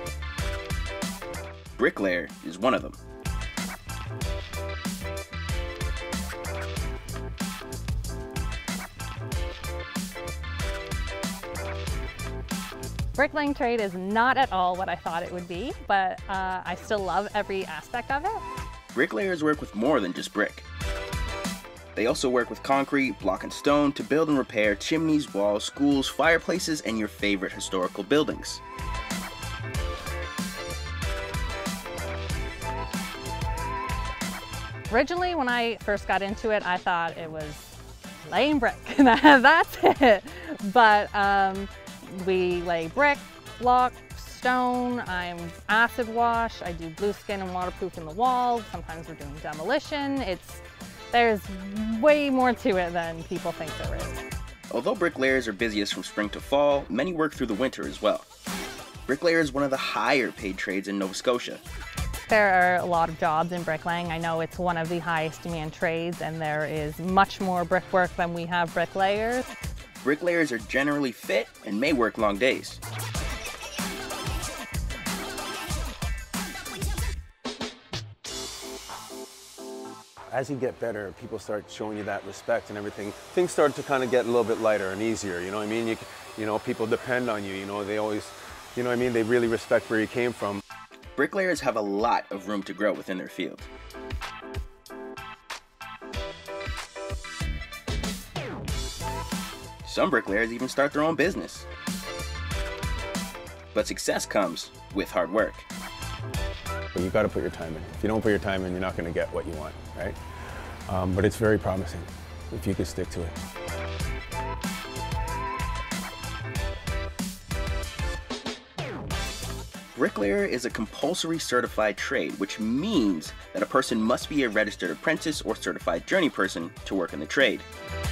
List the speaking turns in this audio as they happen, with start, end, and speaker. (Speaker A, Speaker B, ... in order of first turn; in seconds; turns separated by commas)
Speaker A: 1.8-3.0, Speaker B: 13.2-18.4, Speaker A: 18.9-20.6, Speaker A: 22.0-28.6, Speaker B: 34.9-37.7, Speaker B: 38.2-54.1, Speaker A: 54.7-58.3, Speaker A: 59.1-61.6, Speaker B: 62.3-69.5, Speaker A: 70.0-72.8, Speaker C: 80.3-90.6, Speaker A: 91.2-93.7, Speaker A: 99.8-101.7, Speaker A: 103.7-105.7, Speaker C: 106.9-110.2, Speaker C: 110.9-113.3, Speaker A: 120.0-127.7